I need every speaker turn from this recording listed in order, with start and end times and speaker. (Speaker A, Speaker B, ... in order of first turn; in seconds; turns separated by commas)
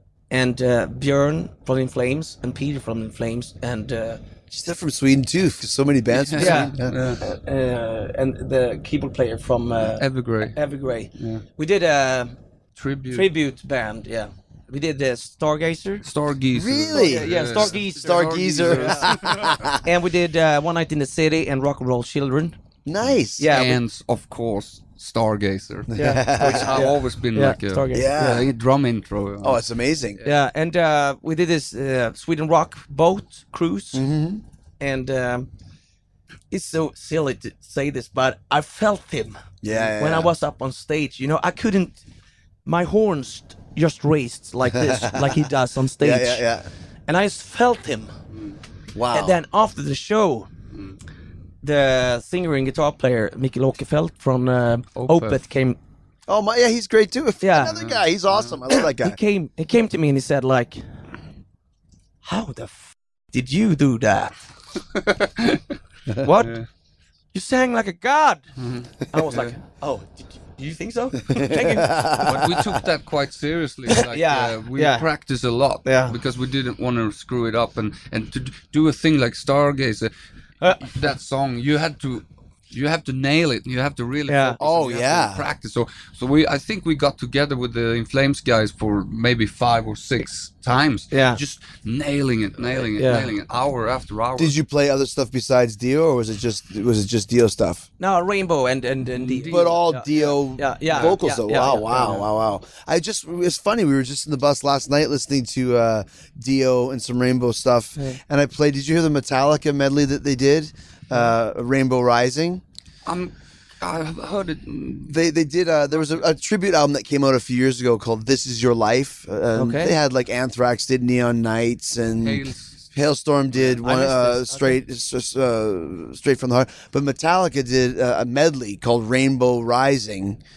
Speaker A: 0.3-4.2, Speaker B: 4.5-7.0, Speaker C: 6.1-7.2, Speaker A: 6.4-12.3, Speaker C: 9.9-10.6, Speaker C: 11.2-11.4, Speaker C: 12.8-13.3, Speaker A: 13.1-16.1, Speaker C: 16.0-19.7, Speaker B: 16.5-19.8, Speaker A: 16.9-19.2, Speaker A: 19.8-22.6, Speaker B: 22.9-23.5, Speaker A: 23.4-23.8, Speaker C: 23.5-29.6, Speaker B: 25.9-26.9, Speaker A: 25.9-28.4, Speaker B: 27.9-28.5, Speaker B: 29.4-30.2, Speaker A: 30.2-34.1, Speaker B: 33.9-34.4, Speaker A: 34.8-35.5, Speaker A: 36.5-42.0, Speaker B: 39.6-40.3, Speaker A: 42.7-46.5, Speaker B: 44.7-45.5, Speaker B: 46.0-46.7, Speaker A: 47.1-48.1, Speaker B: 49.0-49.4, Speaker A: 49.1-50.5, Speaker A: 51.6-55.8, Speaker C: 55.0-55.4, Speaker B: 56.3-59.2, Speaker A: 57.4-57.8, Speaker C: 57.7-58.6, Speaker A: 58.7-60.8, Speaker A: 62.2-64.3, Speaker C: 64.9-65.7, Speaker A: 66.2-66.6, Speaker C: 66.4-66.7, Speaker A: 67.3-68.4, Speaker C: 68.6-69.6, Speaker A: 69.1-72.3, Speaker B: 71.3-72.8, Speaker C: 72.2-80.1, Speaker A: 73.9-75.1, Speaker A: 75.8-76.2, Speaker A: 80.6-80.9, Speaker C: 80.8-94.5, Speaker A: 84.3-84.6, Speaker B: 84.6-85.4, Speaker A: 91.1-91.4, Speaker A: 92.7-93.3, Speaker B: 94.4-97.9, Speaker A: 98.0-102.3, Speaker C: 99.1-99.8, Speaker B: 99.5-112.6, Speaker C: 113.1-115.2, Speaker B: 115.1-130.4, Speaker A: 119.5-120.0, Speaker C: 122.2-122.9, Speaker A: 123.6-124.8